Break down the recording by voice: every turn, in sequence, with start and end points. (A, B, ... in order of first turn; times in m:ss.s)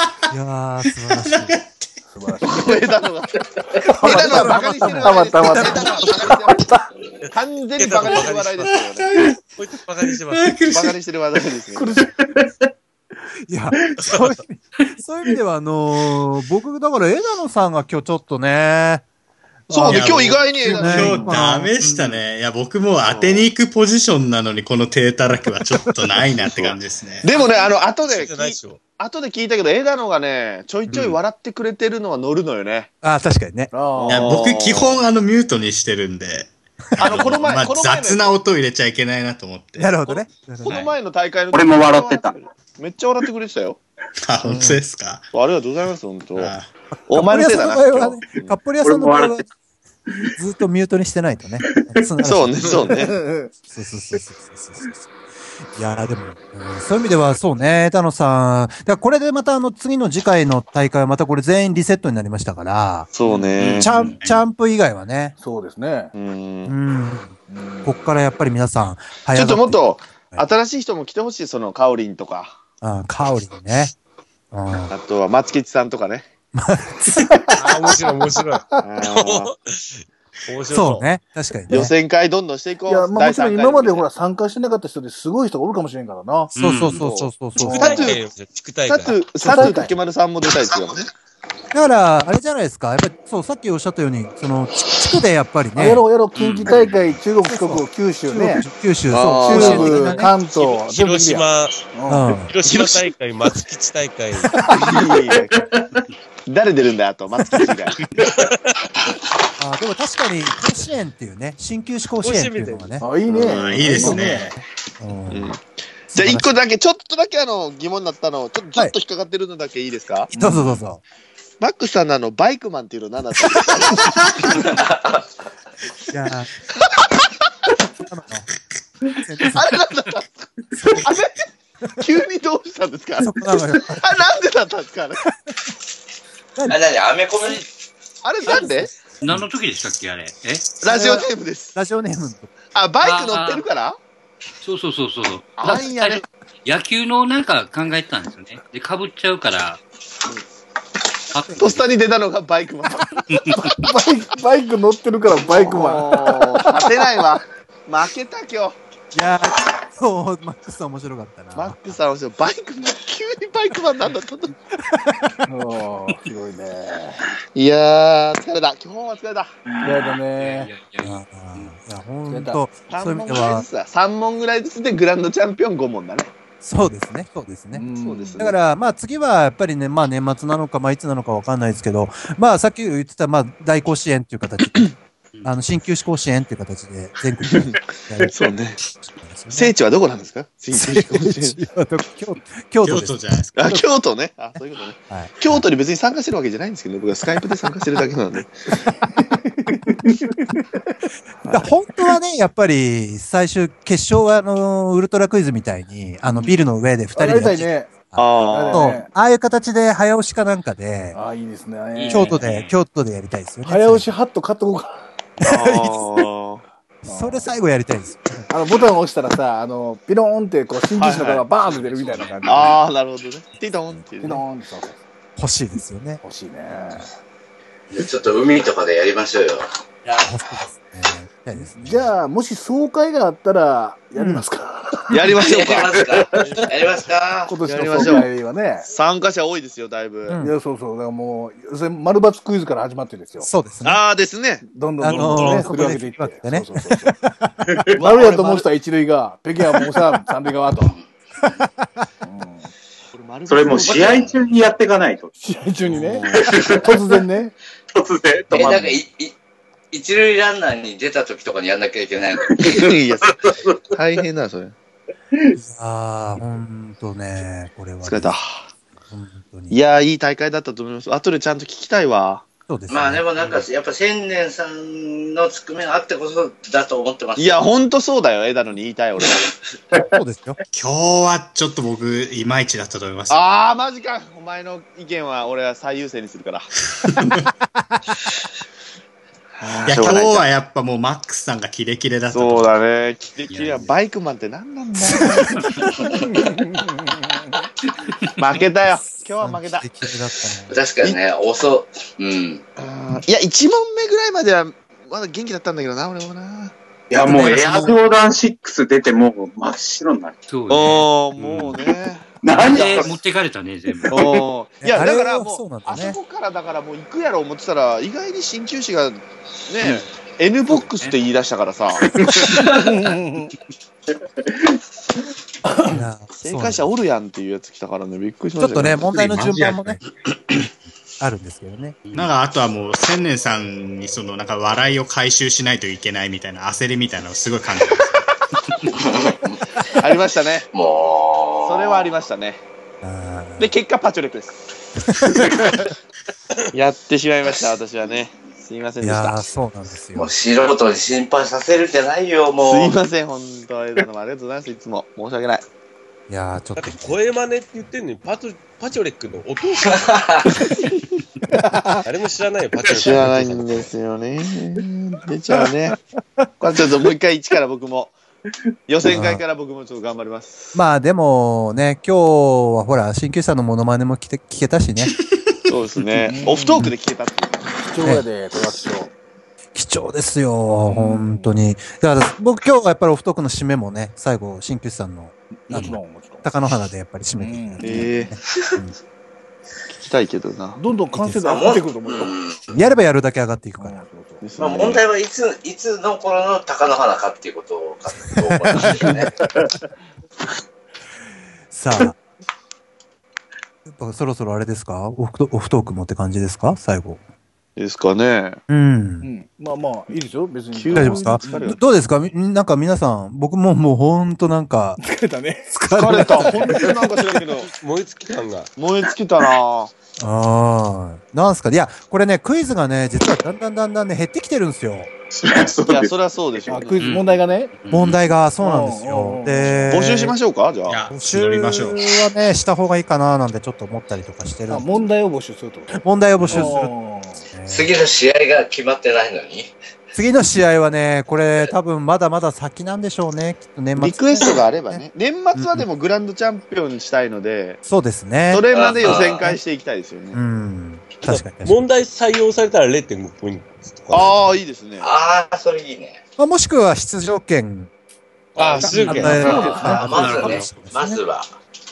0:00.3-0:01.6 A
0:01.1-0:01.8 B
0:02.2-0:02.7 C
0:02.5-0:09.1 D
0:03.9-0:06.8 C
0:04.0-0:06.3 A
0:07.2-0:08.7 E
0:08.8-0:09.4 B
0:09.4-0:10.6 E
0:10.3-0:11.0 B
0:10.7-0:12.0 D
0:11.8-0:12.1 C
0:13.5-0:19.0 A
0:14.0-0:14.3 E
0:19.7-0:20.0 C
0:19.7-0:21.3 D
0:19.9-0:27.3 B
0:20.6-0:21.7 A
0:21.8-0:22.2 F
0:23.1-0:23.4 D
0:26.2-0:32.9 D
0:27.3-0:28.8 E
0:30.9-0:31.1 A
0:33.0-0:33.7 A
0:33.7-0:34.3 C
0:34.0-0:35.0 D
0:34.0-0:40.0 B
0:37.0-0:38.4 D
0:39.8-0:40.8 A
0:40.1-0:43.8 D
0:41.5-0:42.4 G
0:44.2-0:45.3 B
0:44.4-0:44.8 A
0:45.3-0:46.5 D
0:46.3-0:46.7 B
0:46.9-0:49.4 A
0:47.1-0:48.6 D
0:48.8-0:49.4 G
0:50.4-0:53.0 A
0:52.2-0:53.2 D
0:52.9-0:53.5 C
0:53.7-0:55.1 A
0:55.7-1:03.1 A
1:03.1-1:03.9 D
1:03.6-1:04.2 F
1:03.8-1:05.3 A
1:05.4-1:06.1 C
1:06.1-1:06.7 D
1:06.6-1:10.4 A
1:07.5-1:08.0 C
1:09.3-1:12.6 D
1:12.8-1:13.9 A
1:14.5-1:14.9 A
1:14.9-1:16.3 D
1:16.5-1:18.0 A
1:17.6-1:21.1 E
1:18.8-1:19.5 D
1:20.7-1:21.9 A
1:21.7-1:24.0 D
1:22.9-1:26.5 C
1:26.5-1:28.1 A
1:26.6-1:27.0 F
1:27.0-1:28.2 D
1:27.6-1:28.0 C
1:27.8-1:29.2 E
1:28.8-1:31.1 D
1:29.4-1:29.8 A
1:29.4-1:29.9 C
1:31.7-1:36.0 A
1:35.8-1:38.6 C
1:36.3-1:37.1 F
1:37.4-1:40.3 A
1:39.1-1:40.2 D
1:39.4-1:42.4 C
1:40.5-1:41.7 E
1:42.1-1:42.5 A
1:42.5-1:44.7 E
1:42.6-1:43.1 D
1:44.7-1:45.5 D
1:46.5-1:48.0 D
1:48.3-1:48.8 E
1:49.6-1:55.5 A
1:52.2-1:53.1 E
1:53.0-1:54.5 C
1:53.4-1:54.5 B
1:55.3-2:00.3 D
1:56.1-1:56.5 A
2:00.3-2:00.8 C
2:00.4-2:01.0 A
2:01.6-2:04.7 D
2:04.6-2:05.2 H
2:06.1-2:06.5 A
2:08.0-2:08.5 A
2:09.2-2:09.7 A
2:09.5-2:11.4 D
2:10.7-2:11.1 A
2:12.0-2:15.2 D
2:13.2-2:14.2 A
2:16.7-2:17.7 H
2:18.2-2:18.9 D
2:18.5-2:20.7 F
2:20.8-2:21.7 D
2:20.8-2:22.5 A
2:22.7-2:24.0 D
2:23.0-2:23.6 F
2:24.6-2:29.8 F
2:25.6-2:26.2 D
2:31.3-2:31.8 F
2:31.6-2:33.7 D
2:33.3-2:33.7 F
2:33.8-2:36.8 C
2:35.4-2:38.8 D
2:39.1-2:42.0 A
2:41.5-2:44.5 D
2:44.9-2:45.4 A
2:45.5-2:47.2 C
2:47.5-2:49.5 D
2:49.8-2:50.7 C
2:49.8-2:51.7 F
2:51.0-2:53.6 A
2:52.3-2:52.6 C
2:52.9-2:56.3 D
2:56.6-2:57.8 A
2:57.7-2:58.5 C
2:57.9-2:58.6 D
2:58.4-3:04.9 A
3:05.4-3:08.3 A
3:07.5-3:08.8 D
3:09.1-3:09.7 A
3:09.5-3:11.6 D
3:10.7-3:13.8 A
3:12.8-3:13.5 B
3:13.6-3:18.5 D
3:15.1-3:15.6 A
3:19.2-3:20.6 C
3:21.5-3:31.2 A
3:27.1-3:27.9 C
3:28.2-3:28.9 D
3:28.5-3:29.1 C
3:31.1-3:32.4 C
3:31.9-3:32.7 F
3:32.1-3:34.1 A
3:33.6-3:34.9 C
3:35.4-3:36.1 A
3:35.4-3:36.6 D
3:37.0-3:38.5 A
3:37.1-3:37.5 C
3:38.5-3:42.8 C
3:41.0-3:41.4 D
3:41.6-3:42.8 F
3:42.4-3:44.4 D
3:44.2-3:45.0 C
3:45.4-3:46.2 A
3:46.2-3:47.1 C
3:47.9-3:49.7 H
3:50.1-3:52.1 A
3:51.6-3:55.2 C
3:54.2-3:54.4 A
3:55.1-3:56.0 D
3:55.3-3:57.6 H
3:57.5-3:58.9 C
3:57.6-3:58.3 D
3:58.8-4:00.4 D
4:00.3-4:00.5 A
4:00.4-4:03.5 C
4:03.4-4:04.0 A
4:03.8-4:04.6 D
4:04.7-4:07.1 C
4:05.0-4:07.5 A
4:07.7-4:08.0 G
4:07.9-4:08.6 D
4:08.0-4:11.0 C
4:12.2-4:12.7 C
4:13.1-4:14.4 D
4:13.5-4:15.3 G
4:15.4-4:17.5 C
4:16.2-4:17.0 G
4:17.9-4:19.0 G
4:18.5-4:19.3 H
4:19.9-4:22.7 H
4:22.5-4:23.8 G
4:22.6-4:24.7 D
4:25.5-4:28.4 A
4:28.0-4:28.6 D
4:29.1-4:29.8 A
4:29.7-4:32.4 D
4:32.7-4:33.6 A
4:32.9-4:37.6 H
4:37.4-4:39.5 D
4:40.1-4:40.6 A
4:40.7-4:43.4 B
4:43.3-4:46.7 D
4:47.0-4:47.4 B
4:49.6-4:50.5 D
4:49.8-4:52.7 B
4:52.3-4:56.1 D
4:53.5-4:53.9 F
4:56.3-4:57.3 C
4:58.4-4:59.9 D
4:59.4-5:00.8 A
5:00.7-5:02.6 H
5:02.8-5:06.7 D
5:07.1-5:10.4 G
5:07.3-5:07.9 D
5:10.5-5:11.8 F
5:10.7-5:13.1 D
5:12.4-5:13.2 G
5:12.5-5:14.3 F
5:14.1-5:22.2 D
5:14.8-5:16.2 A
5:20.7-5:21.2 F
5:22.2-5:22.6 G
5:22.6-5:23.5 C
5:25.8-5:26.9 A
5:26.4-5:29.2 D
5:28.6-5:30.0 A
5:29.1-5:30.0 G
5:31.2-5:32.0 A
5:32.0-5:32.3 F
5:32.1-5:38.2 B
5:38.9-5:39.6 H
5:40.0-5:40.7 D
5:40.7-5:42.1 H
5:41.6-5:42.6 D
5:43.0-5:43.7 A
5:43.6-5:44.6 D
5:45.0-5:45.9 A
5:46.7-5:49.4 D
5:49.0-5:50.3 A
5:50.1-5:53.0 H
5:52.6-5:55.6 D
5:56.3-5:57.2 A
5:56.8-6:00.6 E
5:59.9-6:00.6 H
6:00.6-6:01.0 D
6:01.5-6:02.0 C
6:02.0-6:03.9 E
6:02.9-6:06.0 D
6:06.6-6:08.1 D
6:08.9-6:10.7 D
6:09.0-6:09.4 A
6:10.7-6:15.1 A
6:15.7-6:17.7 D
6:16.2-6:16.8 C
6:17.8-6:19.1 C
6:19.7-6:28.9 A
6:20.9-6:21.6 C
6:25.7-6:26.5 C
6:27.4-6:28.1 C
6:27.8-6:28.4 D
6:29.9-6:30.8 D
6:30.8-6:32.4 C
6:31.2-6:31.4 A
6:31.4-6:32.7 H
6:32.7-6:34.0 A
6:33.8-6:34.4 C
6:34.4-6:35.0 D
6:34.6-6:39.4 H
6:38.3-6:39.3 A
6:41.7-6:42.2 A
6:43.8-6:47.2 A
6:47.8-6:48.6 D
6:48.7-6:49.3 A
6:49.2-6:51.7 C
6:50.7-6:51.8 D
6:50.9-6:55.0 A
6:55.0-6:56.9 C
6:55.7-6:56.8 A
6:55.9-6:57.7 D
6:57.7-6:58.7 E
6:58.8-6:59.9 D
7:00.2-7:05.1 A
7:05.3-7:06.1 G
7:05.9-7:07.0 D
7:06.7-7:07.7 C
7:07.0-7:08.2 F
7:07.9-7:10.4 A
7:08.6-7:09.9 C
7:09.9-7:11.0 D
7:10.9-7:12.2 B
7:11.1-7:15.1 A
7:14.7-7:17.4 C
7:15.9-7:16.9 A
7:17.5-7:17.9 A
7:17.7-7:19.7 H
7:20.1-7:25.0 A
7:24.0-7:27.8 D
7:25.5-7:25.8 A
7:27.8-7:29.6 A
7:28.5-7:30.4 D
7:28.7-7:29.5 H
7:30.3-7:31.8 A
7:31.2-7:34.6 E
7:34.1-7:35.1 D
7:35.0-7:36.2 H
7:36.4-7:37.9 A
7:38.6-7:39.8 E
7:38.9-7:40.6 F
7:39.0-7:41.2 A
7:39.2-7:41.5 H